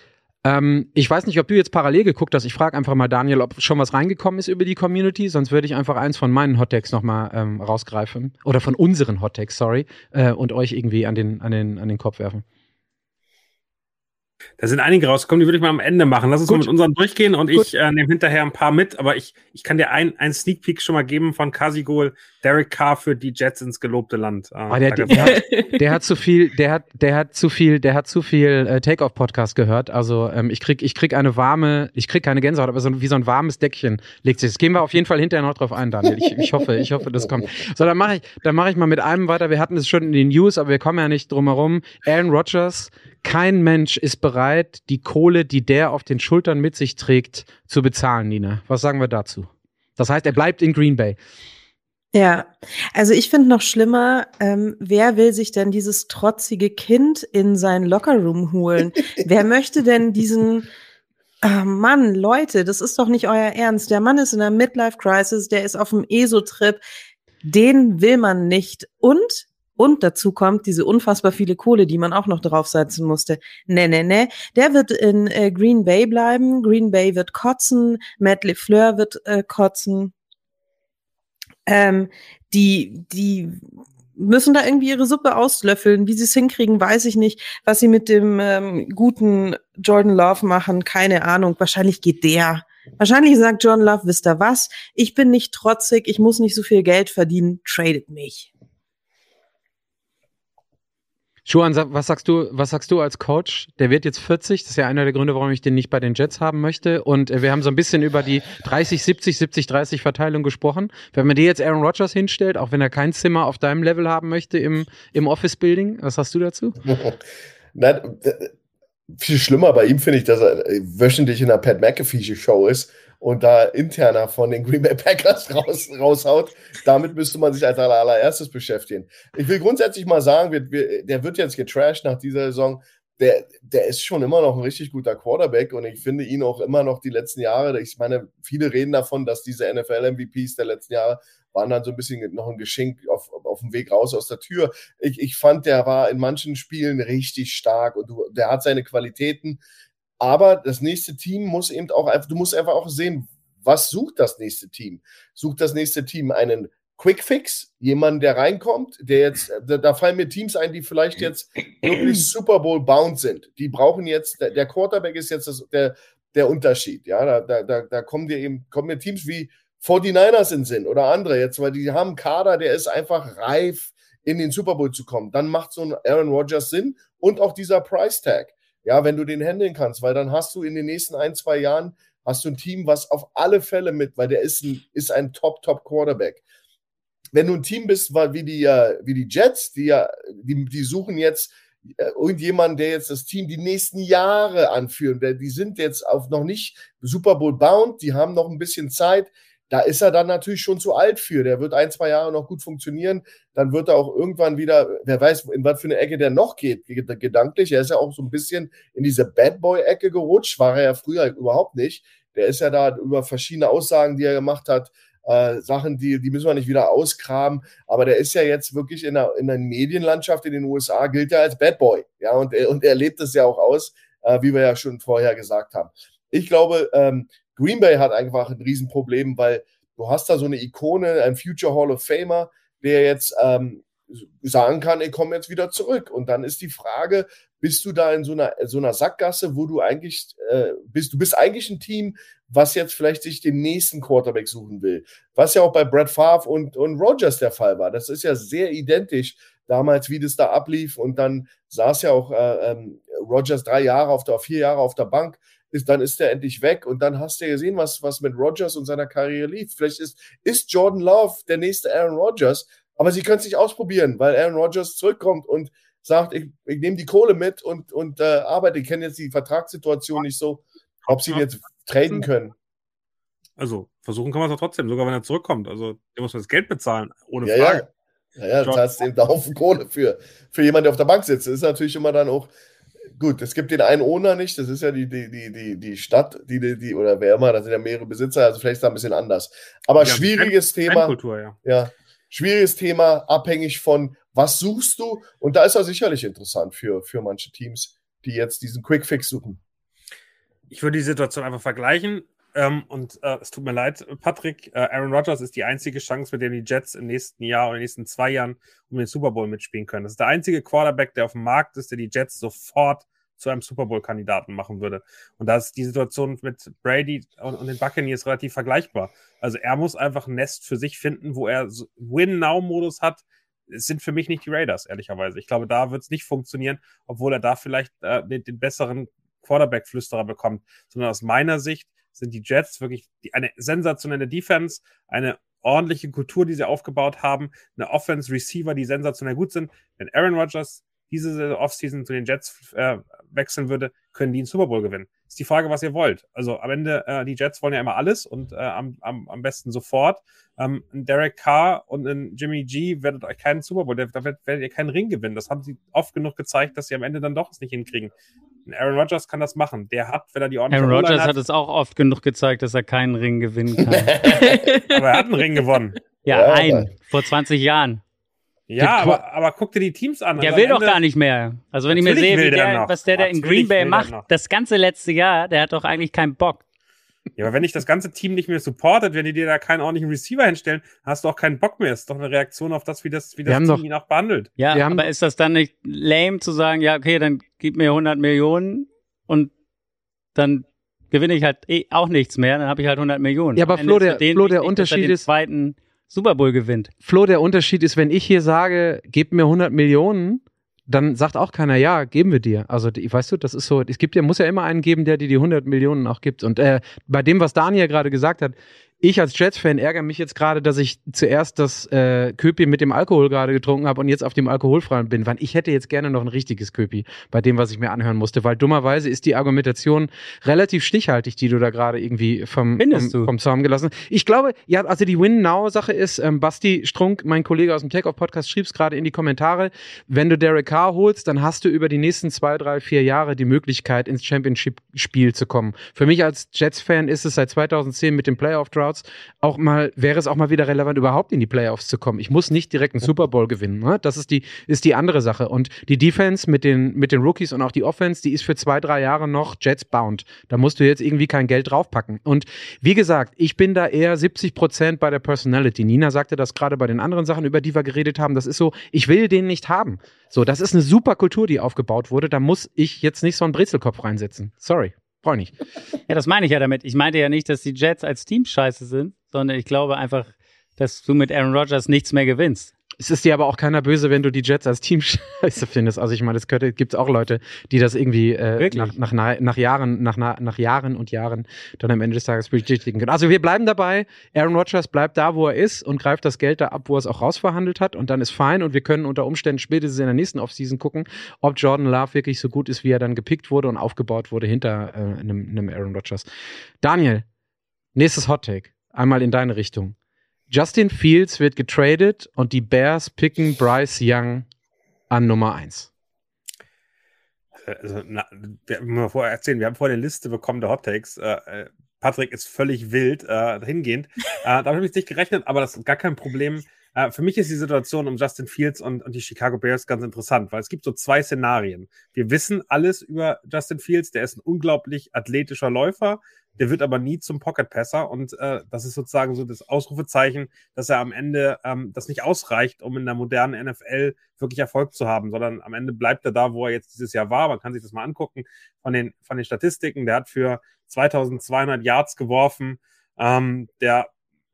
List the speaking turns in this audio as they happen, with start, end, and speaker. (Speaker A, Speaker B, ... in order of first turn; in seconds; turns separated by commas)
Speaker A: 0.4-12.4, Speaker B: 14.6-25.4, Speaker A: 24.7-51.2, Speaker C: 25.1-25.8, Speaker C: 52.1-60.6, Speaker C: 61.4-66.8, Speaker C: 67.4-80.1, Speaker C: 81.7-83.6, Speaker C: 84.2-98.5, Speaker A: 101.5-116.8, Speaker D: 116.8-117.2, Speaker D: 117.7-118.5, Speaker D: 119.1-149.6, Speaker D: 150.2-186.4, Speaker D: 187.3-272.5, Speaker B: 271.0-272.2, Speaker B: 273.6-277.8, Speaker D: 277.4-277.9, Speaker D: 278.4-282.5, Speaker B: 278.6-278.9, Speaker D: 283.1-299.6, Speaker B: 290.0-291.5, Speaker B: 300.7-358.1, Speaker B: 358.6-361.3, Speaker E: 360.7-364.6, Speaker D: 363.9-364.4, Speaker C: 364.4-364.9, Speaker B: 364.9-366.0, Speaker E: 366.2-368.0, Speaker D: 366.3-366.9, Speaker B: 368.7-371.0, Speaker A: 368.8-369.2, Speaker E: 370.4-376.6, Speaker B: 371.9-374.3, Speaker B: 377.4-384.5, Speaker A: 383.5-383.8, Speaker E: 384.6-389.5, Speaker A: 384.7-385.0, Speaker E: 390.3-396.9, Speaker A: 393.6-395.3, Speaker A: 397.0-465.6, Speaker E: 422.8-423.3, Speaker E: 466.1-472.7, Speaker A: 473.0-496.2, Speaker E: 478.6-478.9, Speaker A: 496.8-497.2, Speaker A: 497.9-499.9, Speaker A: 500.5-504.4, Speaker A: 505.1-505.9, Speaker B: 507.6-544.1